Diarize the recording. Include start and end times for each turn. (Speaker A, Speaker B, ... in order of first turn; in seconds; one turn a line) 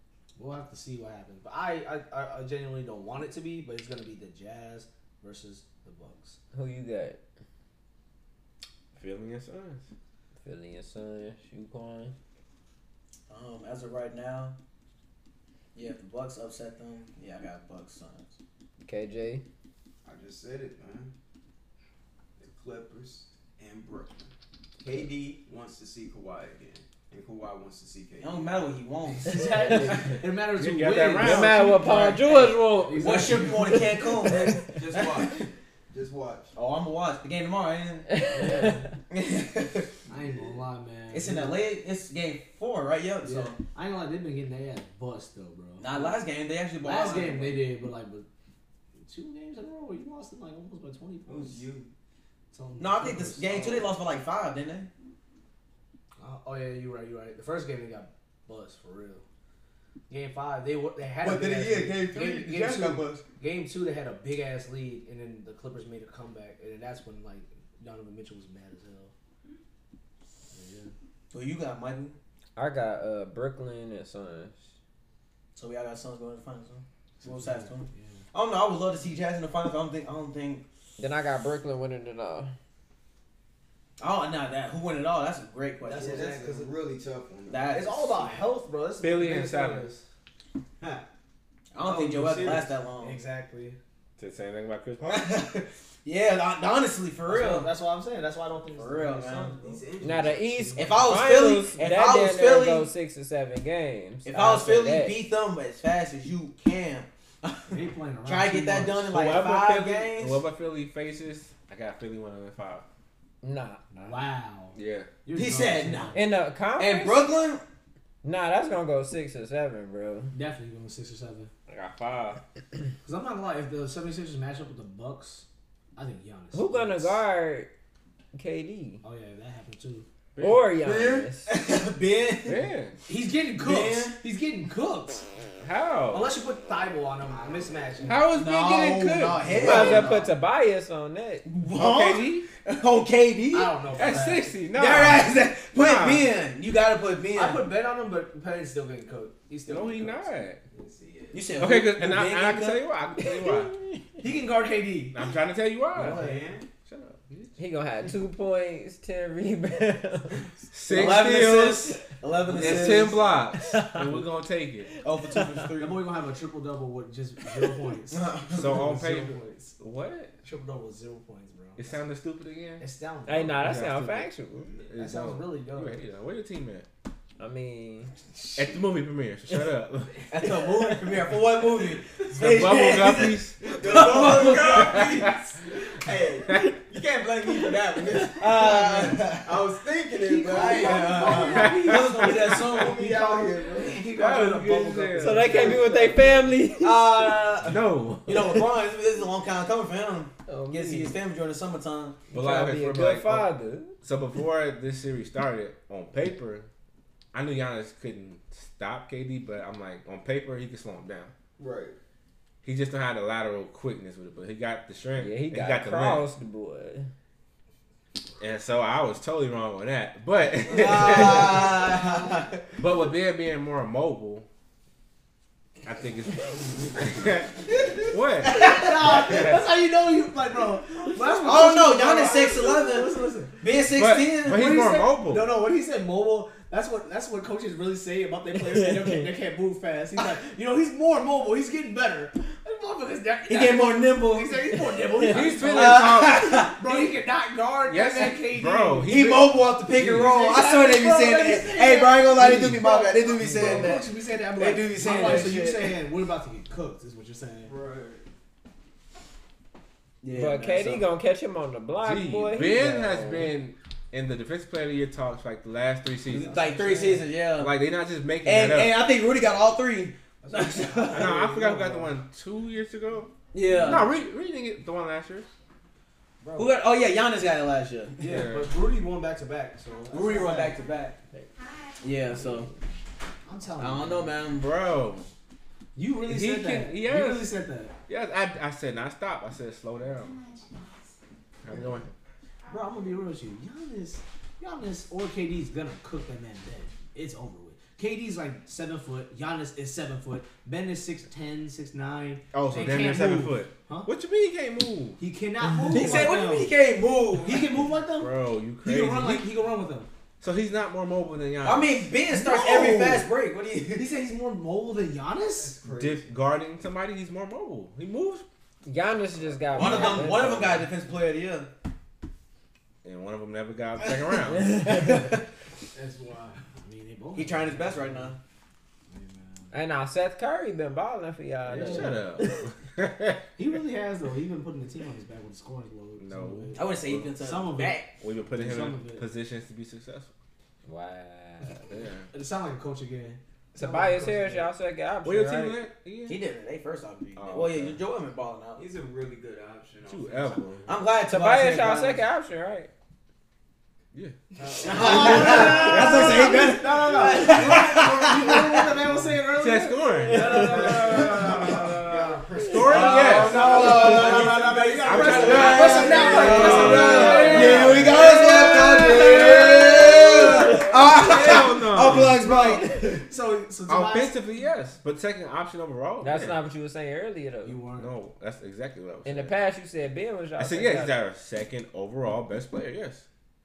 Speaker A: 0.4-6.4
Speaker B: 6.5-7.2
Speaker C: 8.9-9.9
Speaker B: 10.4-12.1
Speaker D: 13.3-14.6
Speaker D: 15.8-18.4
Speaker B: 18.8-19.4
Speaker E: 20.0-21.1
Speaker E: 22.4-28.7
Speaker D: 28.2-29.6
Speaker A: 29.2-34.0
Speaker B: 29.5-30.0
Speaker C: 30.6-31.7
Speaker B: 31.2-34.6
Speaker D: 33.0-35.4
Speaker E: 34.3-36.5
Speaker D: 36.5-38.1
Speaker B: 38.1-38.9
Speaker A: 38.3-38.9
Speaker D: 39.1-39.9
Speaker A: 40.1-41.6
Speaker D: 41.1-43.6
Speaker A: 43.2-46.2
Speaker D: 45.8-47.6
Speaker A: 46.8-48.3
Speaker A: 49.1-51.6
Speaker E: 51.3-51.9
Speaker A: 52.5-54.0
Speaker D: 52.8-54.9
Speaker A: 56.2-59.2
Speaker A: 60.1-69.1
Speaker E: 61.2-63.2
Speaker A: 70.5-70.9
Speaker D: 71.3-72.2
Speaker B: 72.6-74.6
Speaker D: 75.5-80.6
Speaker A: 77.2-78.2
Speaker B: 81.0-82.5
Speaker D: 84.0-86.3
Speaker A: 85.8-86.7
Speaker E: 85.9-87.8
Speaker D: 87.5-88.3
Speaker A: 87.7-90.0
Speaker C: 89.0-89.9
Speaker D: 91.7-93.2
Speaker E: 91.8-92.7
Speaker A: 92.3-93.8
Speaker C: 94.2-95.3
Speaker D: 95.0-97.7
Speaker A: 97.3-99.9
Speaker D: 98.7-99.6
Speaker E: 99.6-101.1
Speaker B: 100.0-105.2
Speaker D: 100.8-102.9
Speaker D: 104.2-110.4
Speaker A: 107.7-109.1
Speaker C: 109.1-112.8
Speaker B: 113.4-114.1
Speaker A: 114.0-116.2
Speaker C: 114.8-115.1
Speaker D: 115.3-116.2
Speaker B: 116.1-117.3
Speaker D: 116.8-117.6
Speaker B: 118.2-120.3
Speaker A: 120.3-121.5
Speaker C: 121.7-122.4
Speaker A: 123.0-127.2
Speaker B: 126.5-127.7
Speaker B: 128.3-129.0
Speaker A: 129.0-130.1
Speaker C: 130.4-130.7
Speaker B: 130.4-131.5
Speaker E: 130.8-131.3
Speaker D: 131.5-132.6
Speaker C: 132.4-133.0
Speaker A: 133.1-135.2
Speaker D: 133.6-134.2
Speaker C: 135.6-136.3
Speaker A: 136.1-138.3
Speaker C: 138.0-139.7
Speaker D: 138.4-140.2
Speaker A: 139.5-140.3
Speaker E: 139.5-140.1
Speaker B: 139.6-141.5
Speaker D: 141.5-144.1
Speaker C: 141.7-142.5
Speaker A: 143.5-144.6
Speaker C: 144.0-146.3
Speaker D: 144.7-147.7
Speaker A: 147.3-150.3
Speaker C: 149.7-150.6
Speaker E: 150.7-151.4
Speaker D: 151.3-152.8
Speaker C: 151.6-153.8
Speaker B: 153.2-154.0
Speaker A: 154.2-155.2
Speaker C: 155.1-156.3
Speaker A: 155.9-156.5
Speaker E: 156.0-156.7
Speaker C: 156.9-157.2
Speaker B: 157.6-160.5
Speaker C: 160.7-161.9
Speaker D: 160.9-163.3
Speaker C: 162.5-164.9
Speaker A: 162.6-163.1
Speaker B: 163.6-164.2
Speaker D: 165.0-166.0
Speaker B: 165.4-165.6
Speaker A: 165.8-169.7
Speaker D: 168.1-168.9
Speaker C: 168.6-170.3
Speaker A: 170.4-172.1
Speaker C: 171.8-172.8
Speaker A: 172.8-173.8
Speaker B: 173.3-174.7
Speaker C: 173.6-176.9
Speaker A: 175.0-176.0
Speaker B: 177.4-178.1
Speaker C: 178.6-180.3
Speaker D: 180.3-185.1
Speaker C: 182.3-185.3
Speaker E: 183.6-191.5
Speaker D: 188.2-189.6
Speaker A: 190.2-196.4
Speaker D: 190.5-193.0
Speaker C: 191.5-192.3
Speaker E: 192.5-194.0
Speaker C: 194.1-195.8
Speaker B: 195.2-197.1
Speaker D: 196.8-202.2
Speaker C: 197.7-198.6
Speaker B: 200.5-201.2
Speaker B: 202.3-203.9
Speaker C: 202.3-203.5
Speaker C: 204.0-206.7
Speaker C: 207.3-211.3
Speaker E: 211.6-212.0
Speaker C: 212.6-216.3
Speaker B: 215.2-217.1
Speaker C: 218.4-221.6
Speaker D: 220.7-222.5
Speaker C: 222.8-224.5
Speaker C: 225.8-228.6
Speaker A: 228.4-233.7
Speaker C: 229.2-229.6
Speaker D: 231.4-234.7
Speaker C: 233.9-235.5
Speaker A: 234.4-249.2
Speaker B: 238.7-239.2
Speaker D: 243.5-245.0
Speaker B: 245.3-245.5
Speaker C: 245.3-246.6
Speaker D: 245.7-247.1
Speaker C: 247.9-250.2
Speaker D: 249.1-256.0
Speaker A: 249.9-257.7
Speaker E: 257.6-258.2
Speaker D: 260.2-261.1
Speaker B: 260.3-263.5
Speaker C: 262.0-266.6
Speaker A: 266.3-267.2
Speaker D: 266.3-267.8
Speaker C: 267.6-269.0
Speaker D: 268.4-271.4
Speaker A: 270.4-272.2
Speaker C: 271.1-275.5
Speaker D: 273.5-274.1
Speaker A: 276.4-276.7
Speaker D: 276.6-278.2
Speaker A: 278.2-280.8
Speaker C: 278.2-278.7
Speaker D: 280.1-281.2
Speaker D: 282.0-282.7
Speaker A: 283.4-284.4
Speaker D: 283.8-284.7
Speaker C: 284.6-285.3
Speaker A: 285.9-287.9
Speaker C: 286.2-290.4
Speaker C: 291.6-292.1
Speaker A: 292.7-304.1
Speaker C: 302.5-305.2
Speaker A: 305.2-306.7
Speaker D: 305.9-307.7
Speaker A: 307.4-310.1
Speaker C: 308.1-309.5
Speaker C: 310.4-312.1
Speaker D: 311.6-314.1
Speaker A: 312.3-313.3
Speaker A: 313.9-315.8
Speaker E: 315.6-316.3
Speaker C: 315.9-318.4
Speaker B: 318.9-320.9
Speaker D: 319.7-321.7
Speaker A: 319.9-320.3
Speaker C: 323.0-324.8
Speaker B: 324.6-325.2
Speaker A: 325.9-328.3
Speaker D: 327.4-328.4
Speaker A: 329.1-329.8
Speaker B: 329.7-332.7
Speaker A: 331.7-332.2
Speaker C: 331.8-333.4
Speaker A: 333.6-338.0
Speaker C: 336.2-337.3
Speaker D: 336.8-338.1
Speaker C: 338.2-340.3
Speaker A: 338.6-339.3
Speaker B: 340.9-341.9
Speaker C: 341.9-342.3
Speaker A: 342.3-344.7
Speaker B: 343.8-345.8
Speaker C: 345.2-346.4
Speaker D: 346.3-348.9
Speaker C: 347.4-348.0
Speaker E: 348.8-350.7
Speaker C: 350.1-350.9
Speaker D: 350.9-352.2
Speaker B: 351.3-352.9
Speaker E: 354.6-356.7
Speaker A: 354.8-362.2
Speaker D: 354.9-358.8
Speaker E: 357.3-357.5
Speaker C: 359.1-361.9
Speaker B: 360.3-361.9
Speaker E: 360.6-369.2
Speaker C: 362.6-363.9
Speaker B: 362.7-363.3
Speaker A: 362.8-374.4
Speaker D: 362.9-372.9
Speaker C: 365.0-372.4
Speaker B: 366.3-368.0
Speaker B: 372.9-373.2
Speaker C: 373.9-376.6
Speaker B: 376.2-377.8
Speaker A: 377.6-378.1
Speaker C: 378.0-379.6
Speaker B: 379.2-381.1
Speaker C: 380.6-383.2